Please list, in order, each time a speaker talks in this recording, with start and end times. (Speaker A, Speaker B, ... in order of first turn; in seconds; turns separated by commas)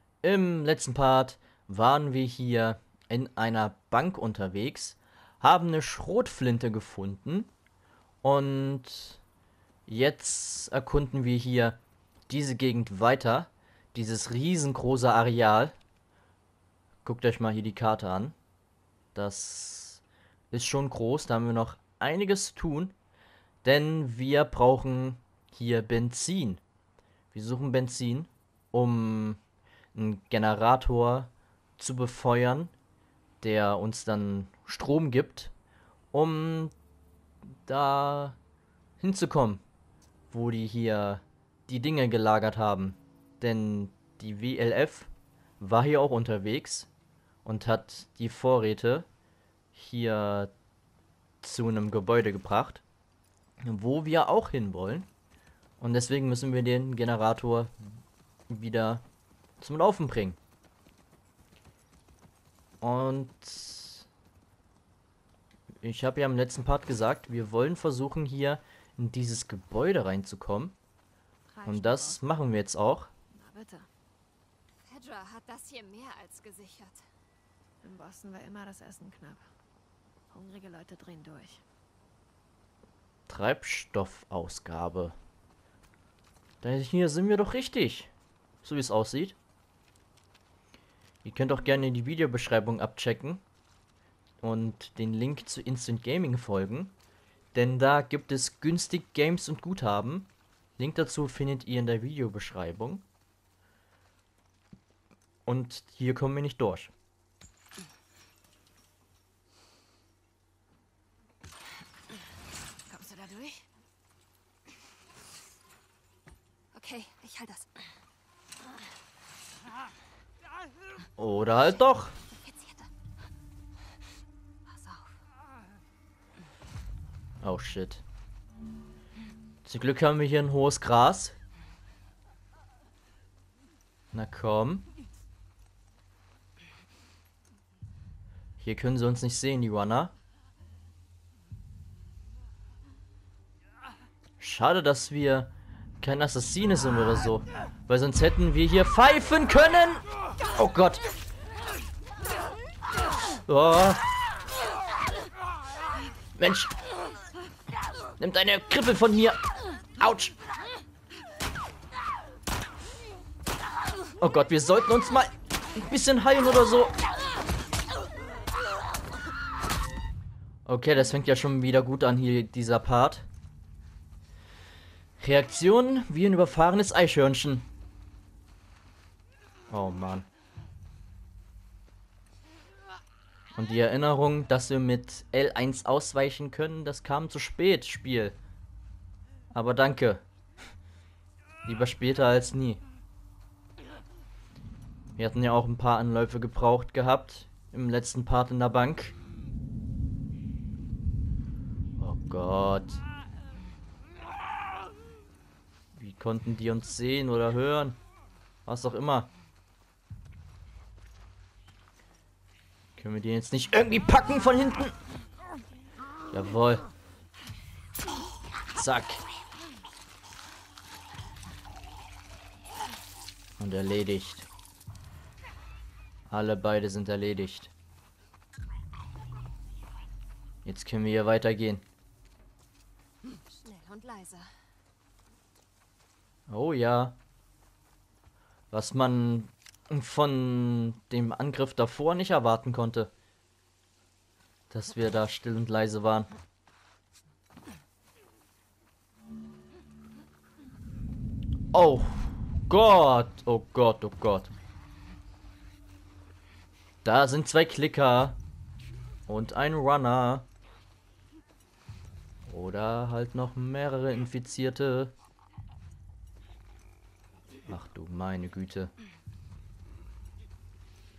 Speaker A: 0.2-7.5, Speaker A: 8.2-9.2, Speaker A: 9.9-15.8, Speaker A: 17.0-18.4, Speaker A: 19.1-22.9, Speaker A: 23.6-26.6, Speaker A: 27.3-29.4, Speaker A: 29.9-32.7, Speaker A: 33.4-35.5, Speaker A: 36.1-36.7, Speaker A: 37.7-38.4, Speaker A: 39.0-39.6, Speaker A: 40.3-46.9, Speaker A: 47.5-49.1, Speaker A: 49.7-50.5, Speaker A: 51.4-52.8, Speaker A: 53.6-55.1, Speaker A: 55.8-57.9, Speaker A: 58.5-59.0, Speaker A: 59.6-60.4, Speaker A: 62.8-64.1, Speaker A: 65.8-70.8, Speaker B: 71.5-72.2, Speaker A: 71.7-73.1, Speaker B: 73.3-73.9, Speaker C: 74.9-77.0, Speaker B: 77.8-79.5, Speaker B: 80.3-81.6, Speaker A: 83.3-85.2, Speaker A: 86.6-88.1, Speaker A: 88.6-89.4, Speaker A: 91.2-93.4, Speaker A: 94.4-96.9, Speaker A: 97.5-103.0, Speaker A: 105.5-106.9, Speaker B: 112.9-113.7, Speaker C: 116.7-117.8, Speaker A: 121.2-122.2, Speaker C: 122.3-122.9, Speaker C: 124.7-125.2, Speaker A: 127.4-128.0, Speaker A: 129.7-131.4, Speaker A: 134.1-134.8, Speaker A: 138.6-140.1, Speaker A: 144.4-151.1, Speaker A: 153.5-154.0, Speaker A: 156.4-156.7, Speaker A: 158.2-159.4, Speaker A: 160.0-160.4, Speaker A: 164.2-167.0, Speaker A: 170.7-173.3, Speaker A: 175.2-177.7, Speaker A: 179.7-180.3, Speaker A: 183.6-188.4, Speaker A: 189.5-190.2, Speaker A: 191.7-192.8, Speaker A: 195.2-199.1, Speaker A: 202.0-203.0, Speaker A: 205.9-208.0, Speaker A: 208.7-209.3, Speaker A: 213.0-215.0, Speaker A: 216.3-216.9, Speaker A: 218.7-219.2, Speaker A: 223.6-224.5, Speaker A: 226.3-227.7, Speaker A: 230.7-231.8, Speaker C: 233.5-234.5, Speaker A: 236.5-237.2, Speaker A: 238.7-243.1, Speaker A: 244.7-246.3, Speaker A: 251.7-254.5, Speaker A: 257.0-258.4, Speaker A: 259.3-260.5, Speaker A: 262.5-265.1, Speaker A: 267.7-268.9